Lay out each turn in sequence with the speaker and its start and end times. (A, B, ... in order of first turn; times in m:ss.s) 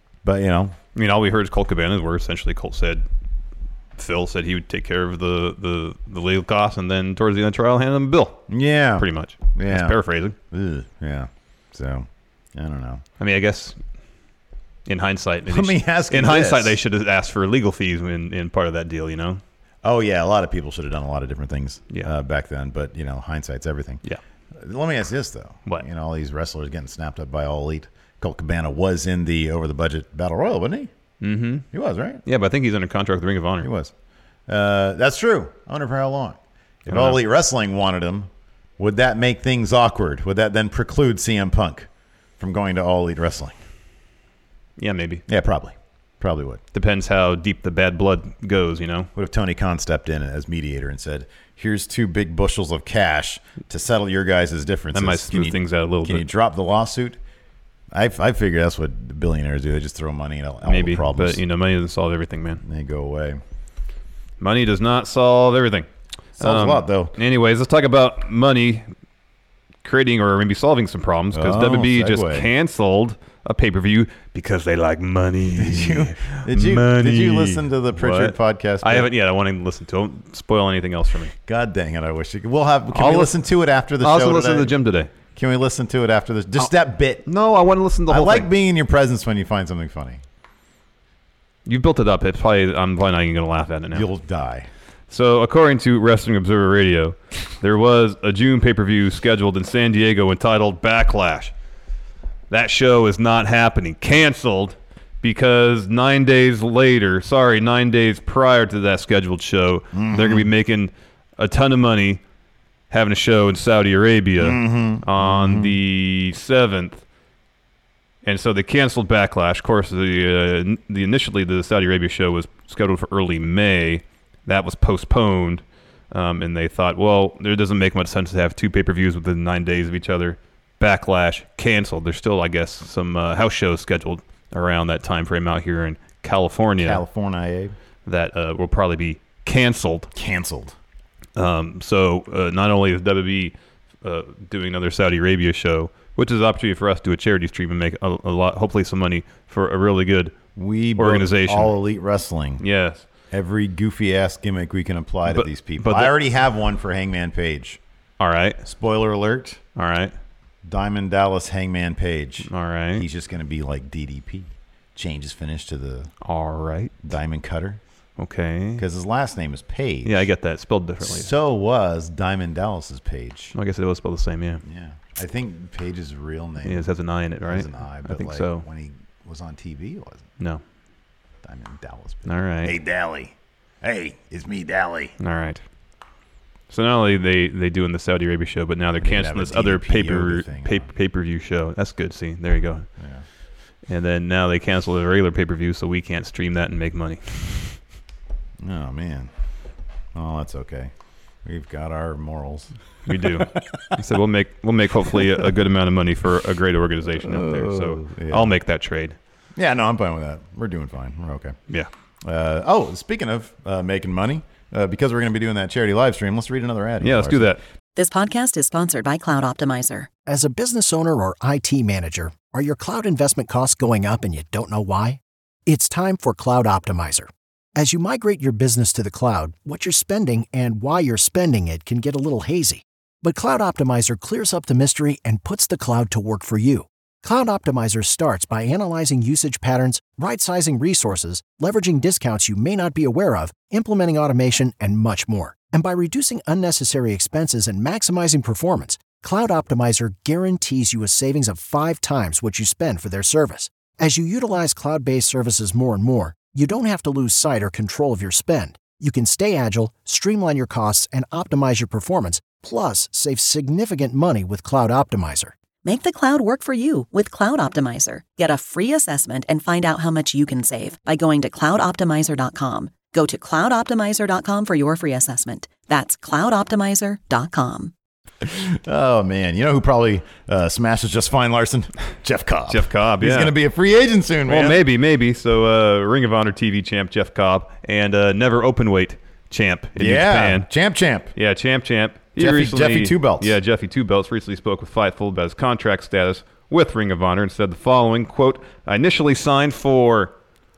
0:00.2-0:00.8 A
0:01.0-0:03.0 B
0:04.0-0:08.4 B
0:08.5-0:10.0 A
0:09.0-0:10.4 B
0:10.5-0:13.0 A
0:13.2-0:13.8 B
0:14.9-0:19.4 B
0:15.5-0:16.8 A
0:19.8-0:30.9 A
0:31.2-0:31.7 B
0:31.7-0:32.2 A
0:32.3-0:33.7 B
0:33.6-0:33.9 A
0:34.5-0:41.9 A
0:36.9-0:37.2 B
0:42.4-0:43.6 A
0:44.8-0:45.2 B
0:45.3-0:46.6 A
0:46.7-0:49.1 B
0:49.2-0:57.2 A
0:54.9-0:56.3 B
0:57.9-1:01.4 A
1:00.7-1:02.6 B
1:02.6-1:03.4 A
1:04.4-1:05.9 B
1:06.4-1:07.2 A
1:06.4-1:08.8 B
1:09.8-1:21.3 B
1:11.3-1:12.5 A
1:15.6-1:19.1 A
1:21.5-1:24.8 A
1:22.9-1:23.4 B
1:24.0-1:25.1 B
1:25.4-1:27.2 A
1:27.3-1:28.5 B
1:28.1-1:30.2 A
1:31.7-1:34.1 B
1:33.9-1:34.7 A
1:35.1-1:41.5 B
1:42.5-1:52.2 B
1:49.9-1:50.5 A
1:52.9-1:57.0 B
1:54.4-1:55.8 A
1:58.2-2:17.0 B
2:16.8-2:17.8 A
2:18.1-2:20.1 B
2:20.2-2:20.8 A
2:21.4-2:30.4 B
2:30.6-2:32.6 A
2:31.0-2:31.7 B
2:32.6-2:33.1 B
2:33.3-2:37.8 A
2:35.3-2:36.1 B
2:38.2-2:38.6 B
2:38.6-2:39.6 A
2:39.8-2:40.1 B
2:40.6-2:46.1 A
2:42.4-2:43.1 B
2:46.2-2:46.9 B
2:47.0-2:47.8 A
2:48.2-2:48.8 B
2:48.8-2:50.2 A
2:50.0-2:51.3 B
2:51.0-2:53.6 A
2:53.6-2:54.6 B
2:54.6-2:56.9 A
2:56.6-2:58.6 B
2:57.4-3:00.3 A
3:01.4-3:05.2 A
3:02.3-3:02.8 B
3:05.2-3:05.6 B
3:06.7-3:12.9 B
3:09.0-3:10.9 A
3:13.9-3:17.8 B
3:18.6-3:19.3 A
3:20.2-3:20.9 A
3:21.4-3:23.9 A
3:23.1-3:29.2 B
3:27.2-3:28.6 A
3:29.6-3:31.6 A
3:32.2-3:37.5 A
3:37.0-3:37.6 B
3:38.0-3:40.1 C
3:40.3-4:25.6 D
4:25.8-4:37.9 C
4:38.4-4:44.8 A
4:42.7-4:43.5 B
4:44.5-4:50.7 B
4:50.0-4:51.3 A
4:51.4-5:00.3 B
4:52.4-4:53.6 A